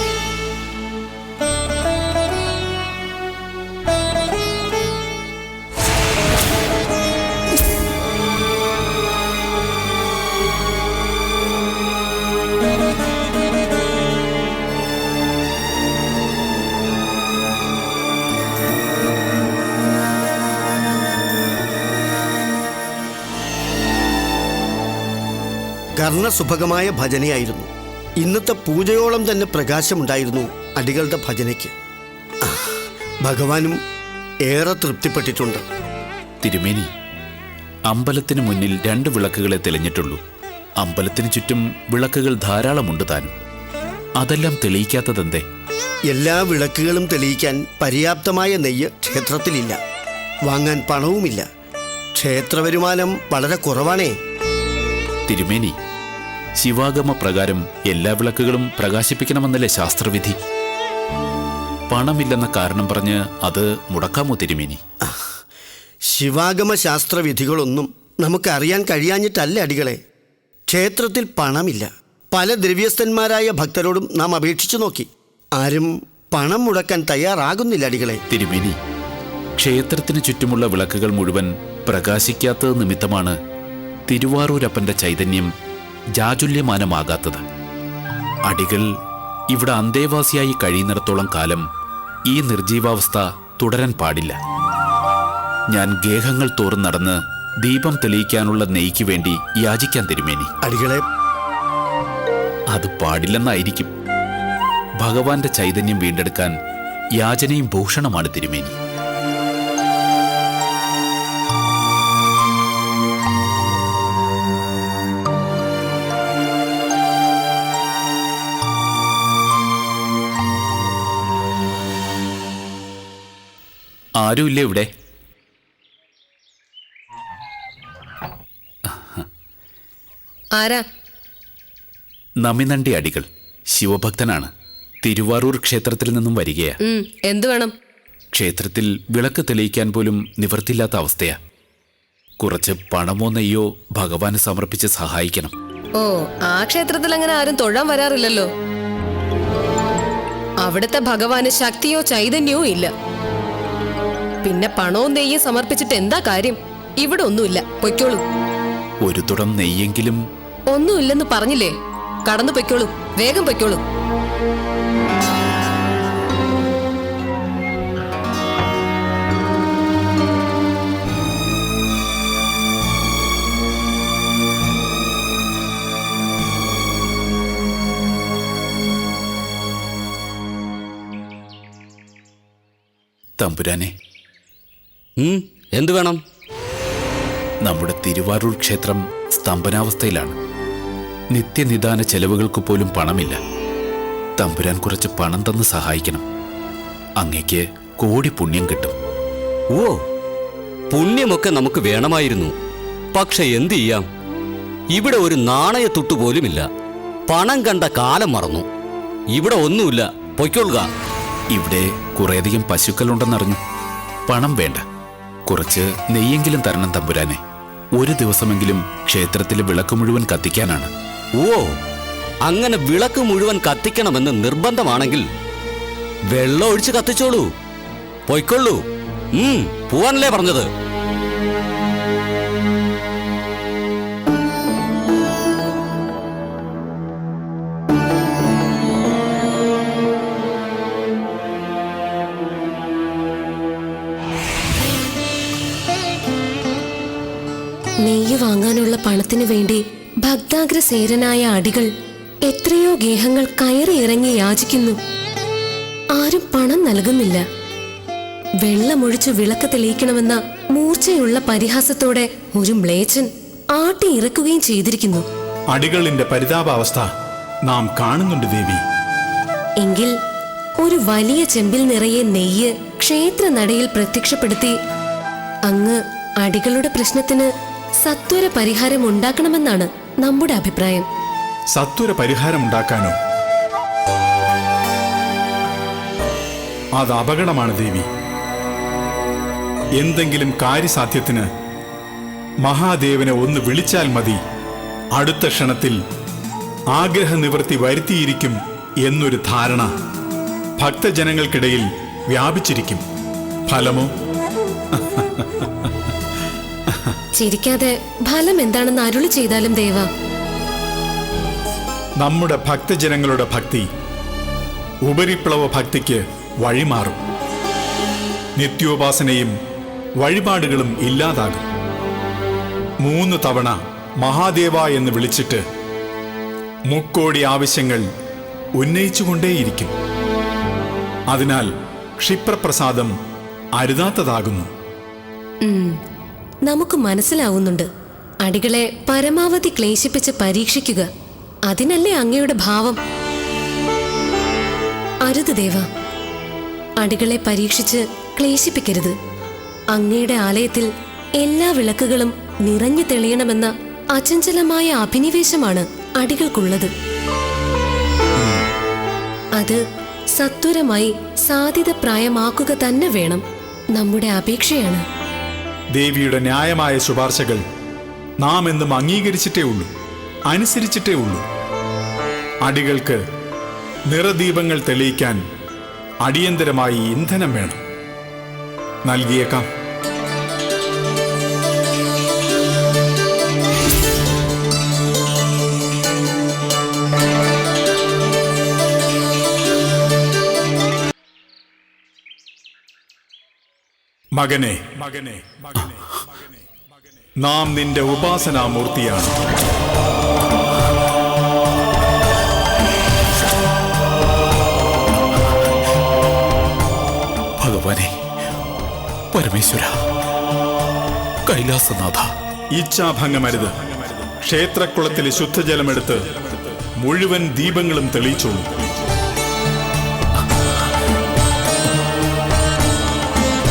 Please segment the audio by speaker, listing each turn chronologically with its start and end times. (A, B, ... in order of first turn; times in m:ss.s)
0:26.0-0:27.7 A
0:28.2-0:31.7 A
0:32.4-0:33.8 A
0:34.4-0:35.6 A
0:36.4-0:36.9 B
0:37.9-0:40.2 B
0:40.8-0:43.3 B
0:44.2-0:45.4 B
0:46.1-0:49.8 A
0:50.4-0:51.4 A
0:52.1-0:54.1 A
0:55.3-0:55.7 B
0:56.6-1:00.4 B
1:01.9-1:04.8 B
1:05.0-1:05.3 A
1:06.1-1:10.0 A
1:10.7-1:18.2 A
1:18.3-1:18.8 B
1:19.6-1:23.4 B
1:24.1-1:25.5 B
1:26.2-1:27.4 B
1:28.5-1:28.9 B
1:29.5-1:31.6 B
1:32.3-1:34.4 B
1:35.7-1:40.5 B
1:40.6-1:41.0 A
1:42.7-1:43.9 B
1:45.0-1:46.5 B
1:47.2-1:48.8 B
2:04.2-2:04.9 B
2:08.8-2:09.3 B
2:10.6-2:10.8 C
2:12.4-2:14.5 B
2:15.0-2:16.8 B
2:16.8-2:17.7 C
2:18.3-2:21.4 B
2:22.4-2:25.5 B
2:26.0-2:28.5 C
2:30.6-2:32.9 C
2:34.4-2:38.2 C
2:39.0-2:40.2 B
2:40.7-2:43.8 C
3:03.4-3:03.9 B
3:05.2-3:06.2 D
3:07.6-3:10.3 B
3:11.3-3:13.4 B
3:14.4-3:16.2 B
3:17.2-3:18.9 B
3:20.9-3:22.5 D
3:23.1-3:24.0 D
3:24.9-3:26.7 D
3:27.3-3:28.6 D
3:29.3-3:30.9 D
3:31.5-3:33.6 B
3:34.3-3:34.8 B
3:35.5-3:37.4 B
3:38.0-3:40.9 B
3:41.4-3:41.7 D
3:42.4-3:45.2 D
3:46.3-3:47.5 D
3:48.3-3:48.8 D
3:49.3-3:50.7 D
4:08.0-4:11.9 C
4:12.4-4:15.0 C
4:16.1-4:17.4 C
4:18.6-4:25.2 C
4:25.7-4:27.1 E
4:27.7-4:28.8 E
4:29.8-4:30.1 C
4:30.8-4:34.8 C
4:35.7-4:41.0 C
4:41.7-4:43.2 E
4:47.0-4:48.1 E
4:50.0-4:51.5 E
4:52.6-4:54.4 E
4:55.1-4:56.0 E
4:56.9-4:59.9 E
5:00.8-5:03.0 E
5:03.7-5:04.1 E
5:04.9-5:05.9 E
5:06.9-5:07.2 E
5:07.4-5:10.1 C
5:12.2-5:13.9 E
5:15.0-5:17.2 E
5:18.6-5:19.5 E
5:20.2-5:21.6 E
5:23.0-5:25.6 E
5:26.9-5:28.1 E
5:28.8-5:29.9 E
5:31.3-5:33.1 E
5:33.8-5:34.7 E
5:35.6-5:36.0 C
5:36.6-5:37.9 C
5:38.4-5:41.1 C
5:41.7-5:43.0 C
5:45.2-5:45.9 C
5:47.0-5:49.2 C
5:49.9-5:56.9 C
6:00.3-6:03.4 C
6:03.9-6:05.0 C
6:05.9-6:07.6 E
6:08.4-6:09.9 E
6:10.5-6:11.4 E
6:12.6-6:13.2 E
6:14.1-6:15.4 E
6:16.2-6:17.8 E
6:19.0-6:19.7 E
6:34.3-6:36.4 E
6:37.4-6:39.3 E
6:47.6-6:48.1 B
6:49.3-6:50.0 B
6:51.4-6:52.3 B
6:52.7-6:59.0 E